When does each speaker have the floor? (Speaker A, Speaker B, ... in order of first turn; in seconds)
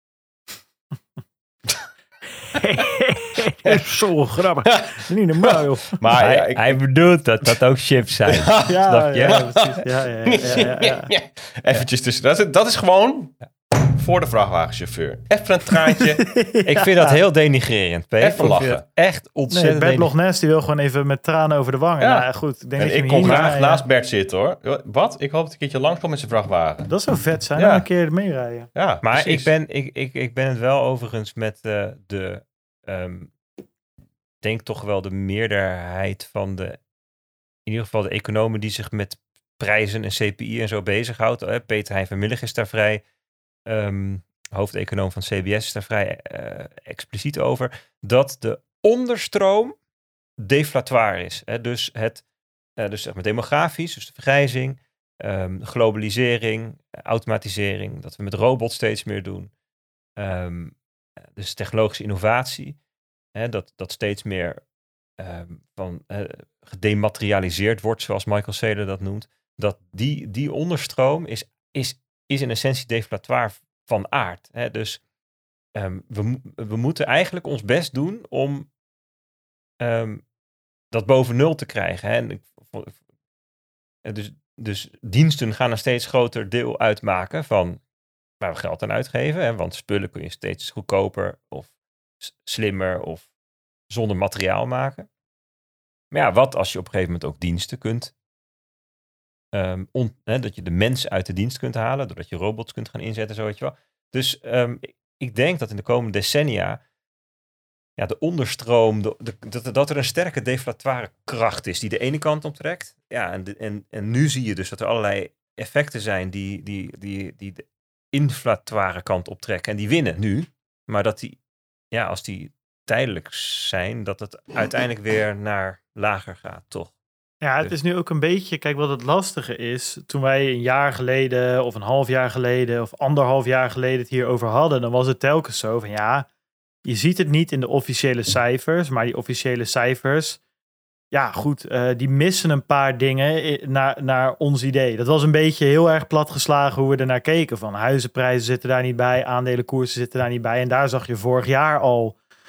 Speaker A: 2.5-6.0, 8.6-11.1, 15.9-17.2, 19.5-23.8, 26.9-28.7, 127.4-136.3, 136.8-140.4, 141.1-152.2
Speaker B: 5.4-6.8, 8.3-9.7, 10.3-16.2, 18.2-18.8, 22.0-26.9, 27.6-27.8, 28.7-29.5
Speaker C: 6.2-9.4, 16.7-20.1, 23.2-23.6, 29.0-33.3, 34.4-36.8, 37.6-43.0, 43.7-49.8, 50.4-52.2, 52.8-59.5, 60.2-60.7, 61.3-62.8, 63.3-64.6, 65.2-75.0, 75.7-78.7, 79.8-80.2, 80.9-82.9, 84.0-87.8, 88.4-91.7, 92.2-93.3, 93.9-95.1, 96.1-98.1, 99.5-106.8, 108.0-121.4, 121.9-126.9